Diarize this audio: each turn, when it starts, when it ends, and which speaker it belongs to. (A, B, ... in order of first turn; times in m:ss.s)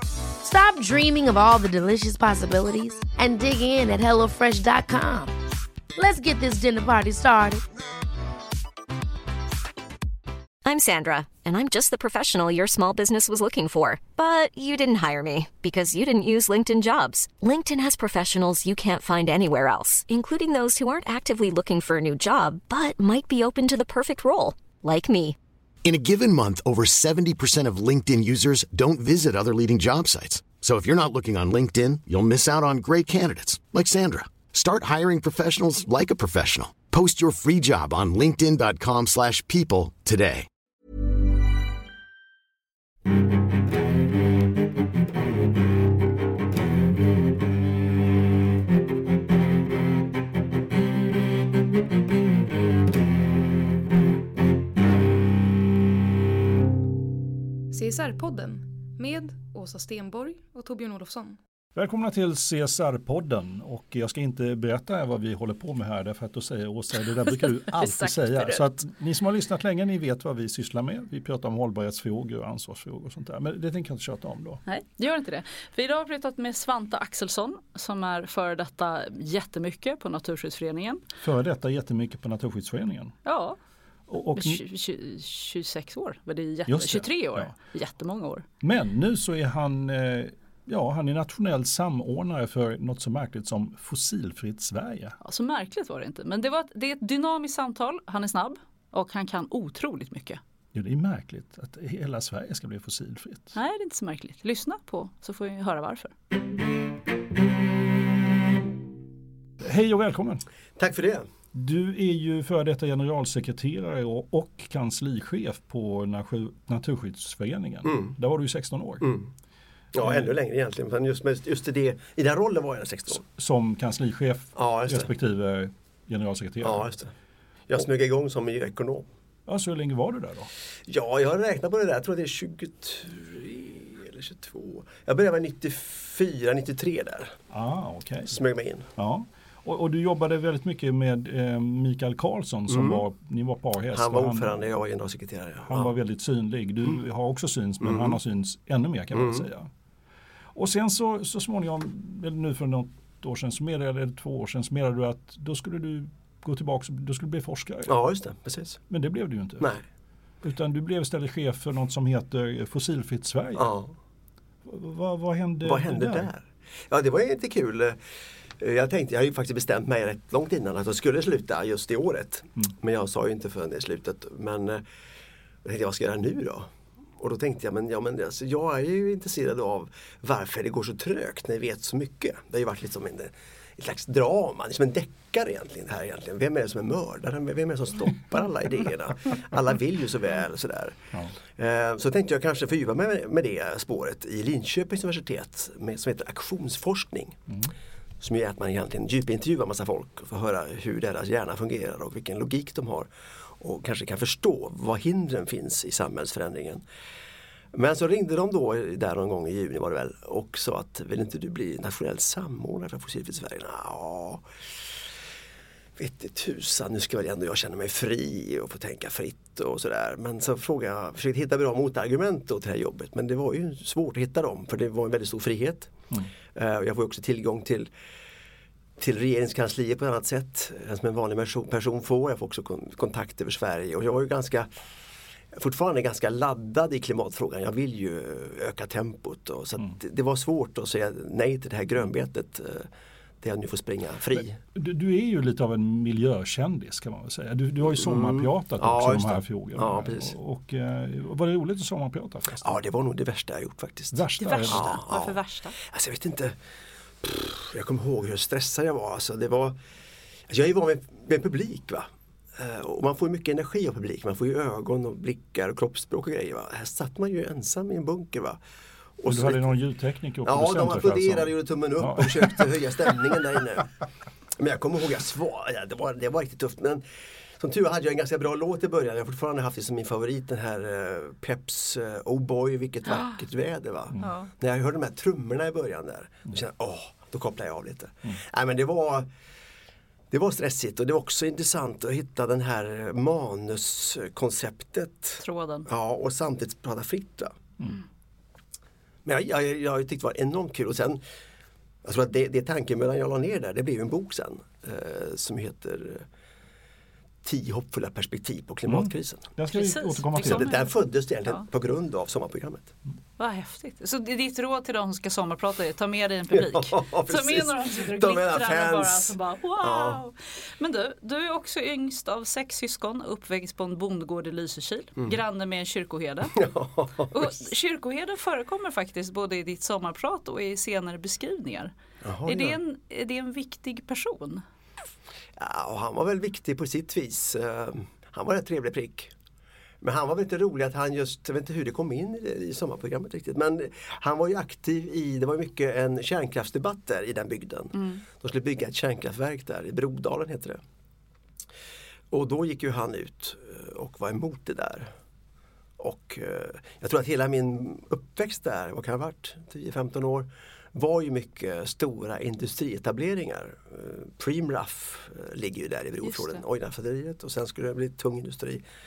0:00.4-0:05.3 A
0:06.0-0:07.6 A
0:10.6-0:25.4 B
0:25.8-0:40.5 C
0:57.7-1:01.4 D
1:01.8-1:14.6 E
1:07.3-1:08.7 F
1:14.7-1:21.0 F
1:21.2-1:23.2 E
1:23.2-1:23.6 F
1:24.1-1:24.6 E
1:24.4-1:28.4 F
1:26.7-1:27.5 E
1:28.6-1:35.2 E
1:35.2-1:40.4 F
1:40.7-1:43.5 E
1:43.5-1:46.1 F
1:49.6-1:50.4 E
1:50.8-1:51.3 G
1:51.5-1:59.1 E
1:57.8-1:58.2 G
1:59.0-1:59.3 G
1:59.9-2:03.2 G
2:00.0-2:00.3 E
2:03.2-2:06.9 E
2:04.5-2:05.1 G
2:06.6-2:07.1 G
2:07.7-2:09.1 G
2:09.4-2:10.5 E
2:10.9-2:17.4 G
2:17.5-2:18.4 E
2:18.3-2:18.9 G
2:19.0-2:24.5 E
2:22.7-2:23.0 G
2:23.9-2:25.9 G
2:25.7-2:29.7 E
2:27.8-2:28.2 G
2:29.1-2:29.5 G
2:30.5-2:37.9 E
2:37.9-2:38.8 G
2:38.9-2:39.7 E
2:40.4-2:43.7 E
2:43.6-2:43.9 G
2:44.6-2:46.3 E
2:45.6-2:48.0 G
2:48.6-2:54.8 G
2:55.6-3:17.4 G
3:18.2-3:26.8 G
3:27.7-3:34.4 G
3:36.0-3:45.9 G
3:46.5-3:47.9 G
3:49.0-3:54.7 G
3:55.5-4:02.9 G
4:03.4-4:04.6 G
4:04.8-4:12.6 E
4:07.8-4:10.3 G
4:12.6-4:16.6 G
4:14.1-4:14.8 E
4:14.4-4:15.8 F
4:17.2-4:19.8 G
4:20.5-4:28.6 G
4:29.2-4:29.7 G
4:29.3-4:32.7 E
4:30.4-4:33.9 G
4:34.6-4:37.0 G
4:37.6-4:49.3 G
4:44.2-4:44.5 F
4:50.3-4:57.6 G
4:55.4-4:55.9 F
4:59.2-5:01.2 G
5:02.0-5:06.2 G
5:07.4-5:09.5 G
5:08.9-5:10.7 E
5:09.7-5:10.9 F
5:10.4-5:12.9 G
5:13.4-5:26.6 F
5:16.5-5:20.2 G
5:26.5-5:27.5 G
5:27.3-5:31.9 F
5:32.2-5:32.8 G
5:32.4-5:34.6 F
5:35.6-5:39.3 G
5:40.0-5:50.8 G
5:48.0-5:48.2 F
5:52.3-5:55.1 G
5:56.0-6:08.8 G
6:06.2-6:06.6 F